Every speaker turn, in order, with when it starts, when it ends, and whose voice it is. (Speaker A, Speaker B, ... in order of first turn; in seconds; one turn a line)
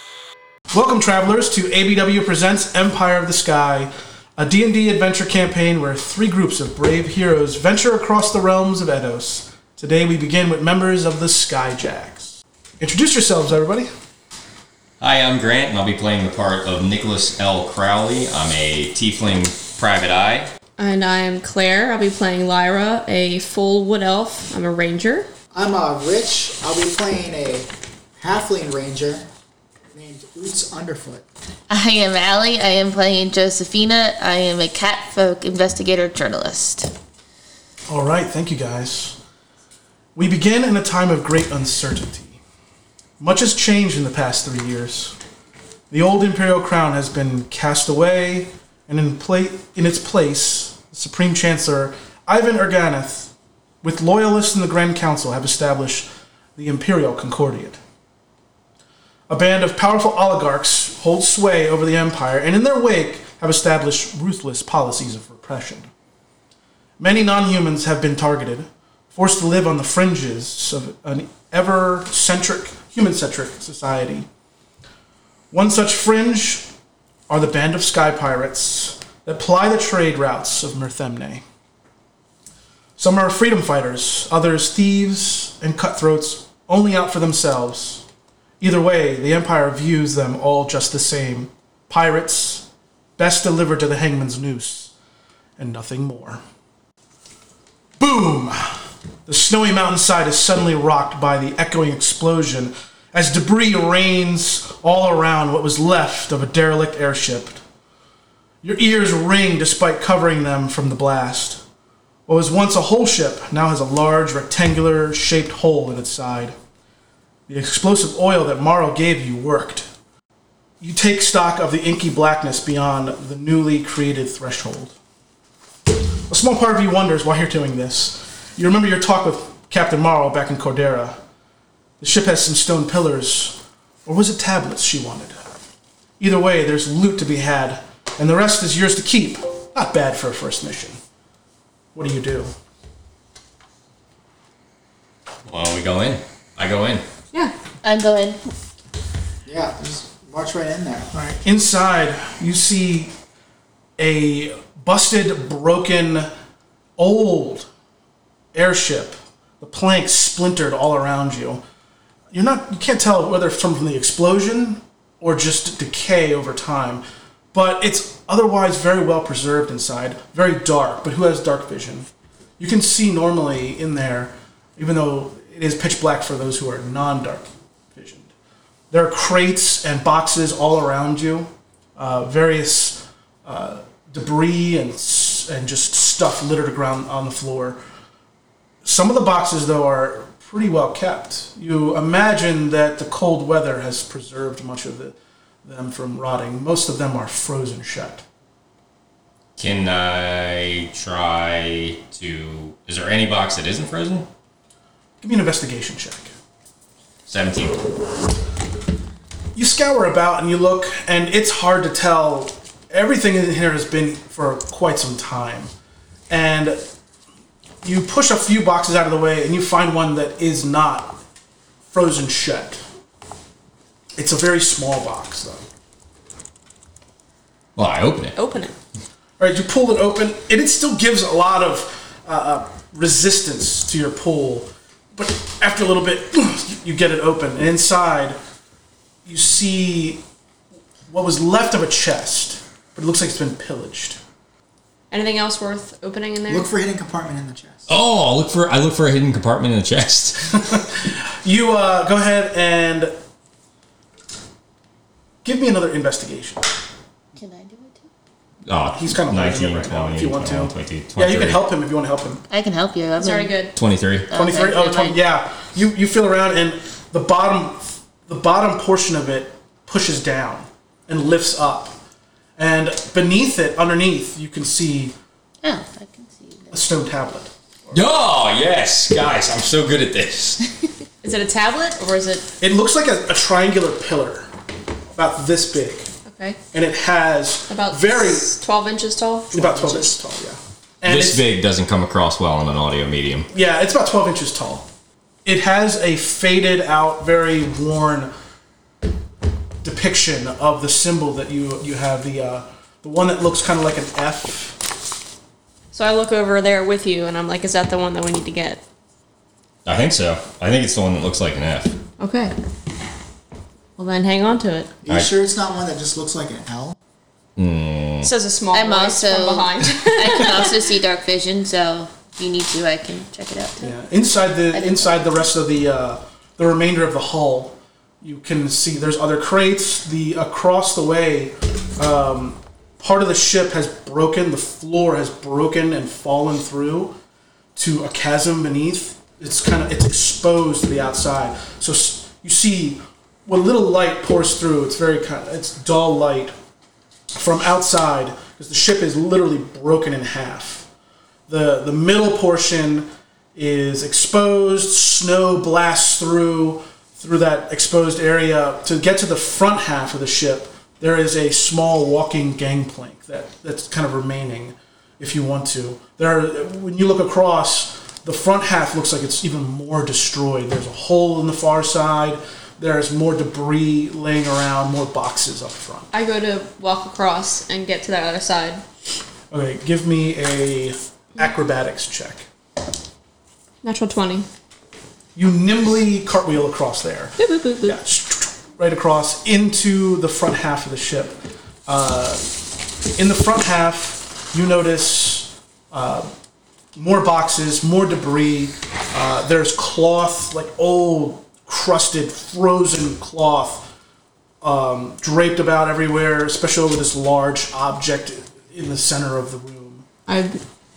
Speaker A: 0.7-13.9
Speaker B: 15.0-20.5
Speaker C: 20.8-25.3
Speaker D: 25.5-29.3
Speaker D: 29.9-31.2
Speaker E: 31.7-36.9
Speaker A: 37.9-39.2
Speaker A: 40.1-42.4
Speaker A: 43.2-45.2
Speaker A: 45.9-53.3
Speaker A: 53.8-57.8
Speaker A: 59.3-65.9
Speaker A: 67.0-74.3
Speaker A: 75.5-76.7
Speaker A: 77.3-81.4
Speaker A: 83.0-88.0
Speaker A: 88.6-92.7
Speaker A: 93.2-94.9
Speaker A: 95.6-96.4
Speaker A: 98.0-98.7
Speaker A: 99.3-107.6
Speaker A: 108.6-111.6
Speaker A: 112.3-116.6
Speaker A: 117.5-119.9
Speaker A: 120.8-125.0
Speaker A: 126.3-131.2
Speaker A: 132.0-135.5
Speaker A: 136.2-141.0
Speaker A: 141.9-142.5
Speaker B: 145.5-147.1
Speaker E: 147.8-148.4
Speaker D: 149.5-151.3
Speaker A: 151.2-153.1
Speaker A: 154.0-156.3
Speaker A: 157.0-157.7
Speaker A: 158.5-161.6
Speaker A: 162.3-172.1
Speaker A: 172.6-178.3
Speaker A: 178.9-187.8
Speaker A: 188.8-198.2
Speaker B: 199.6-204.3
Speaker A: 205.2-206.3
Speaker B: 207.3-207.9
Speaker A: 209.6-215.7
Speaker A: 216.3-216.8
Speaker A: 217.8-221.2
Speaker A: 221.9-222.8
Speaker A: 224.2-225.6
Speaker B: 227.8-228.4
Speaker C: 228.4-228.7
Speaker A: 229.4-238.4
Speaker A: 239.2-240.2
Speaker A: 241.1-244.2
Speaker C: 245.1-246.7
Speaker D: 246.5-247.9
Speaker B: 247.9-250.8
Speaker A: 250.6-253.1
Speaker A: 255.4-256.6
Speaker E: 257.4-258.1
Speaker B: 258.7-261.6
Speaker A: 258.9-262.4
Speaker E: 262.5-263.6
Speaker C: 263.2-263.8
Speaker B: 263.8-264.3
Speaker E: 264.3-265.2
Speaker A: 264.3-272.0
Speaker A: 272.6-275.1
Speaker E: 275.6-276.8
Speaker A: 276.7-278.0
Speaker B: 277.9-280.6
Speaker C: 281.2-282.5
Speaker A: 282.6-284.5
Speaker A: 285.1-286.1
Speaker C: 286.3-286.6
Speaker A: 286.7-288.5
Speaker C: 287.7-289.6
Speaker A: 289.5-291.4
Speaker D: 289.5-290.2
Speaker B: 291.1-293.5
Speaker A: 293.5-294.9
Speaker A: 295.4-298.3
Speaker A: 299.8-304.8
Speaker C: 305.9-308.8
Speaker B: 309.9-311.9
Speaker C: 312.2-312.6
Speaker C: 314.0-314.9
Speaker D: 315.0-317.0
Speaker B: 317.6-318.3
Speaker C: 318.2-320.8
Speaker E: 318.7-323.9
Speaker A: 323.8-337.2
Speaker E: 324.7-325.4
Speaker A: 337.8-346.5
Speaker A: 347.4-350.9
Speaker A: 351.5-376.1
Speaker C: 376.1-378.8
Speaker A: 379.5-382.5
Speaker C: 383.8-384.5
Speaker A: 385.4-392.6
Speaker C: 387.4-388.0
Speaker A: 393.2-396.3
Speaker A: 397.0-403.9
Speaker A: 404.6-410.1
Speaker C: 410.3-410.6